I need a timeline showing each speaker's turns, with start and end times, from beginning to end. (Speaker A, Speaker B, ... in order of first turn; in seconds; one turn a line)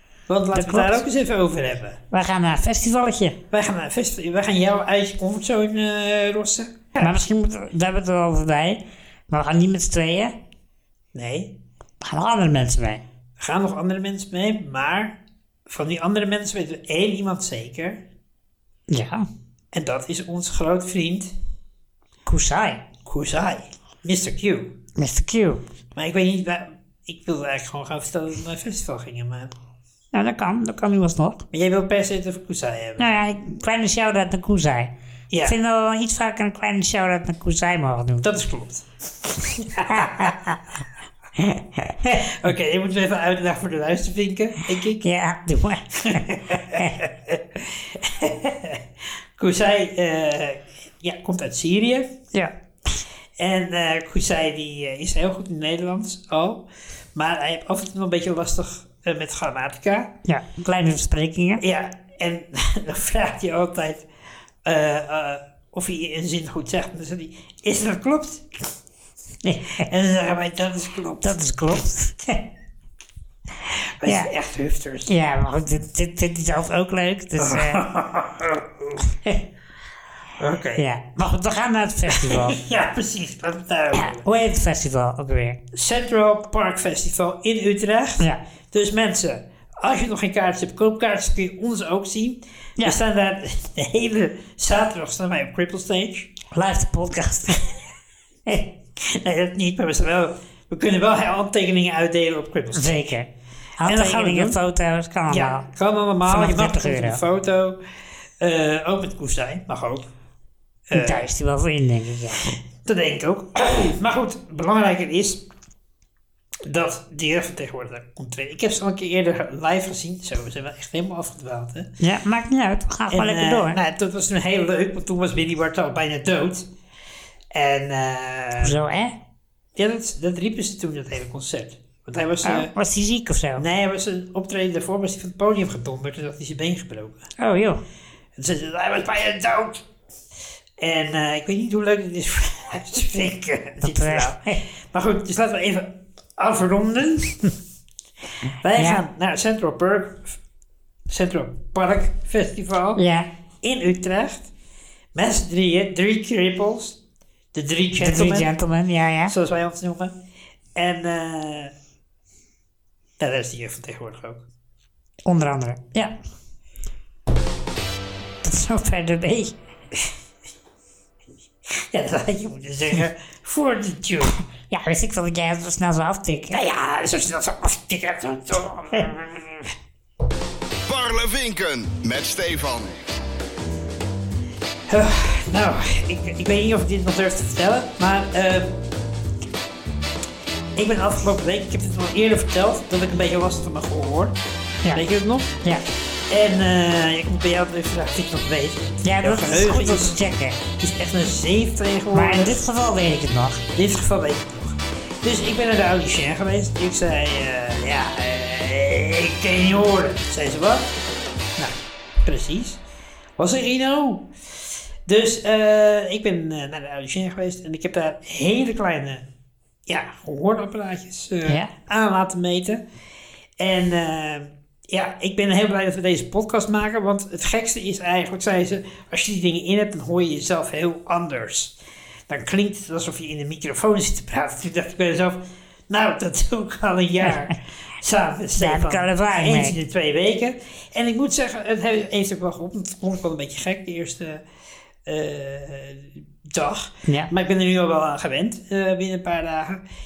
Speaker A: 0.3-2.0
Speaker B: 0.5-1.0
Speaker B: 2.1-3.4
Speaker A: 3.5-7.2
Speaker B: 7.0-10.3
Speaker A: 11.1-11.5
Speaker B: 12.0-13.0
Speaker A: 13.4-18.0
Speaker B: 18.9-19.2
Speaker A: 19.7-21.3
Speaker B: 22.2-22.8
Speaker A: 23.1-24.8
Speaker B: 24.9-25.6
Speaker A: 25.9-29.5
Speaker B: 30.1-31.4
Speaker A: 31.5-33.1
Speaker B: 33.0-38.3
Speaker A: 35.3-35.5
Speaker A: 38.2-40.4
Speaker B: 39.9-40.6
Speaker B: 41.4-42.3
Speaker A: 42.2-45.0
Speaker B: 45.0-46.9
Speaker A: 46.0-48.8
Speaker A: 49.4-52.2
Speaker A: 53.4-60.1
Speaker B: 60.2-61.6
Speaker A: 61.6-64.0
Speaker A: 64.6-68.5
Speaker B: 69.4-69.9
Speaker A: 69.8-71.4
Speaker B: 71.2-72.4
Speaker A: 73.7-75.1
Speaker B: 74.0-74.3
Speaker B: 75.1-77.8
Speaker A: 77.4-79.0
Speaker A: 80.4-80.8
Speaker B: 80.8-82.6
Speaker A: 82.1-84.2
Speaker B: 83.9-85.6
Speaker A: 85.7-96.3
Speaker B: 96.5-97.6
Speaker A: 99.0-103.0
Speaker B: 102.7-105.7
Speaker A: 103.8-104.6
Speaker A: 105.3-107.8
Speaker B: 106.2-107.2
Speaker A: 108.4-110.1
Speaker A: 110.9-111.3
Speaker B: 110.9-112.5
Speaker A: 112.8-115.4
Speaker A: 116.7-121.9
Speaker B: 122.0-123.8
Speaker A: 123.1-126.7
Speaker A: 127.5-128.7
Speaker B: 128.6-129.1
Speaker A: 129.8-132.7
Speaker B: 132.4-133.7
Speaker A: 133.6-137.3
Speaker B: 137.4-137.8
Speaker A: 138.4-139.8
Speaker A: 140.8-147.5
Speaker B: 143.8-144.6
Speaker A: 148.6-150.4
Speaker B: 148.8-149.0
Speaker A: 151.1-153.0
Speaker B: 152.9-153.3
Speaker A: 153.6-154.5
Speaker A: 155.1-157.0
Speaker A: 157.5-158.5
Speaker B: 158.0-159.3
Speaker A: 159.3-160.1
Speaker A: 160.8-161.7
Speaker A: 163.2-164.4
Speaker B: 165.2-166.1
Speaker B: 168.4-169.5
Speaker A: 171.7-174.3
Speaker B: 174.7-176.5
Speaker A: 176.5-179.7
Speaker C: 180.9-183.0
Speaker A: 184.9-188.8
Speaker A: 190.8-194.3
Speaker A: 194.9-195.5
Speaker A: 196.3-200.2
Speaker B: 199.0-200.6
Speaker A: 200.8-202.6
Speaker B: 202.1-203.6
Speaker A: 203.7-210.9
Speaker A: 211.6-212.8
Speaker A: 213.4-214.3
Speaker A: 215.1-219.2
Speaker A: 219.9-222.8
Speaker A: 223.6-231.7
Speaker A: 232.3-244.4
Speaker B: 237.2-237.5
Speaker B: 238.6-239.8
Speaker A: 245.1-249.8